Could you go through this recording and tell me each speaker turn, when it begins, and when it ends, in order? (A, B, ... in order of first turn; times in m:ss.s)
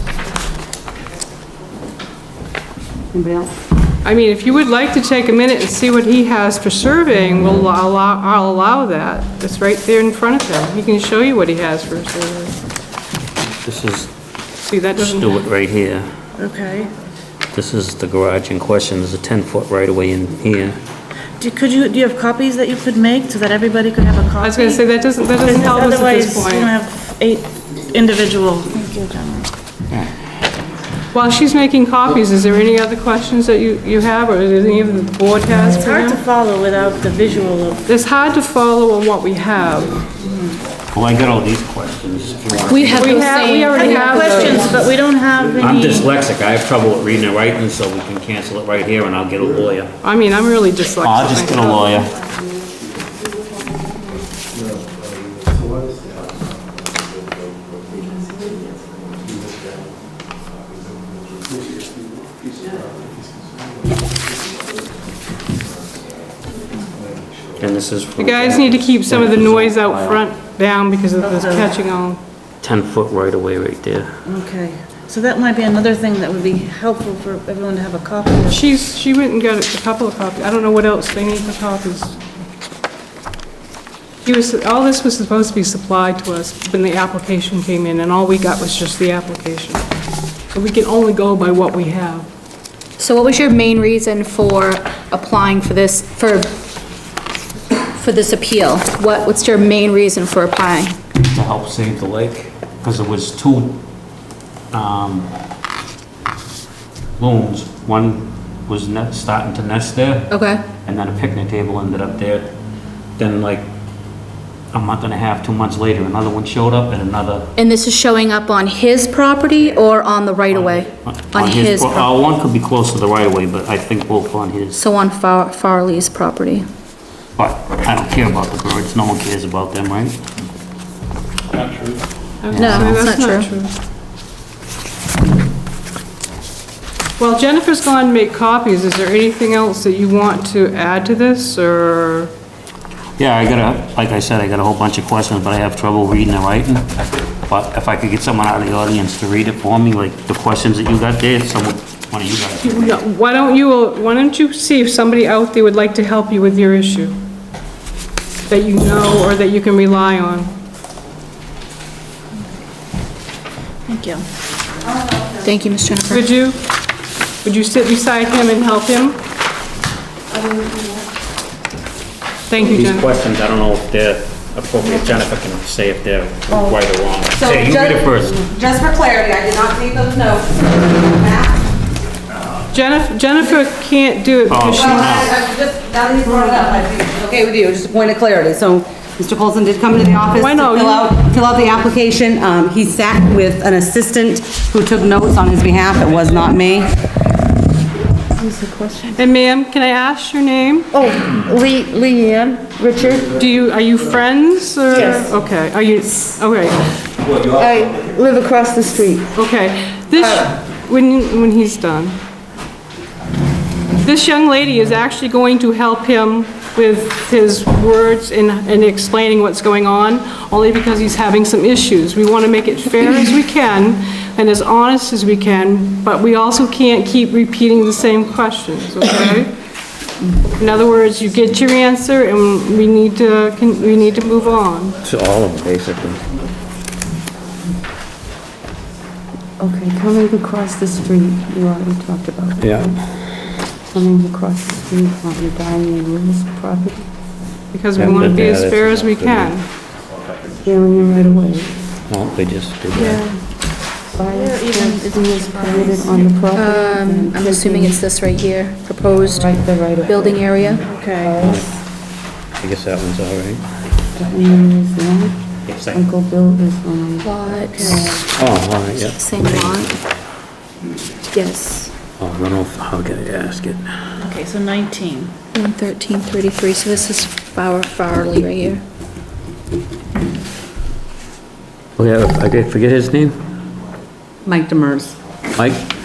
0:03.1-0:03.5 A
0:04.0-0:12.6 B
0:13.6-0:14.1 C
0:14.7-0:15.4 B
0:14.9-0:16.1 C
0:16.4-0:16.9 D
0:17.5-0:20.8 C
0:21.4-0:24.8 D
0:24.4-0:26.7 B
0:25.4-0:29.5 D
0:31.1-0:36.2 B
0:35.6-0:37.8 D
0:37.8-0:40.0 B
0:40.2-0:40.6 D
0:40.9-0:43.2 C
0:42.7-0:44.7 E
0:43.0-0:44.8 B
0:43.8-0:46.2 D
0:45.6-0:49.9 C
0:50.0-0:51.9 B
0:51.0-0:52.1 C
0:58.2-0:58.5 F
1:07.6-1:10.2 C
1:08.2-1:12.2 B
1:11.2-1:11.8 D
1:12.6-1:14.1 C
1:14.3-1:18.6 D
1:18.5-1:22.2 B
1:24.2-1:29.8 B
1:30.5-1:32.3 B
1:33.0-1:36.6 E
1:37.9-1:41.0 E
1:41.3-1:43.8 C
1:44.7-1:45.3 C
1:47.2-1:52.5 C
1:50.3-1:50.8 E
1:53.2-1:53.7 C
1:54.7-1:57.6 C
1:57.6-2:02.1 E
2:00.5-2:04.8 C
2:04.7-2:06.7 E
2:07.4-2:10.2 C
2:12.4-2:13.7 B
2:12.5-2:13.0 C
2:12.6-2:13.5 E
2:17.2-2:22.3 B
2:23.2-2:26.9 C
2:27.5-2:33.0 C
2:32.6-2:37.2 B
2:38.5-2:40.5 B
2:43.9-2:44.2 D
2:45.4-2:46.3 E
2:46.1-2:46.6 B
2:47.4-2:49.2 B
2:52.5-2:53.1 B
2:52.5-2:58.4 C
2:57.3-3:01.6 A
3:02.7-3:05.3 B
3:04.5-3:05.4 C
3:04.6-3:16.9 A
3:10.4-3:11.1 B
3:18.3-3:19.2 F
3:19.2-3:20.9 B
3:20.9-3:23.4 F
3:23.4-3:26.8 B
3:25.0-3:25.2 F
3:27.4-3:27.7 C
3:27.5-3:29.3 F
3:29.4-3:32.2 B
3:34.0-3:49.5 B
3:50.6-3:55.0 B
3:55.0-3:56.2 C
3:59.6-4:03.0 F
4:02.6-4:02.9 C
4:03.9-4:07.1 F
4:07.7-4:09.7 B
4:08.0-4:09.6 C
4:08.0-4:08.6 F
4:10.6-4:11.7 F
4:12.1-4:13.2 C
4:13.0-4:13.4 D
4:14.1-4:18.0 F
4:14.3-4:16.4 D
4:16.6-4:20.8 E
4:19.2-4:21.8 F
4:20.9-4:21.4 D
4:21.4-4:21.6 C
4:22.6-4:23.6 C
4:24.2-4:25.4 F
4:25.7-4:26.0 C
4:25.9-4:28.3 F
4:27.2-4:27.9 E
4:27.7-4:28.2 D
4:28.4-4:30.0 C
4:29.0-4:30.0 E
4:31.3-4:31.9 E
4:32.2-4:33.8 C
4:34.2-4:35.4 D
4:35.5-4:38.8 E
4:42.0-4:43.4 C
4:44.4-4:45.2 A
4:45.6-4:45.9 C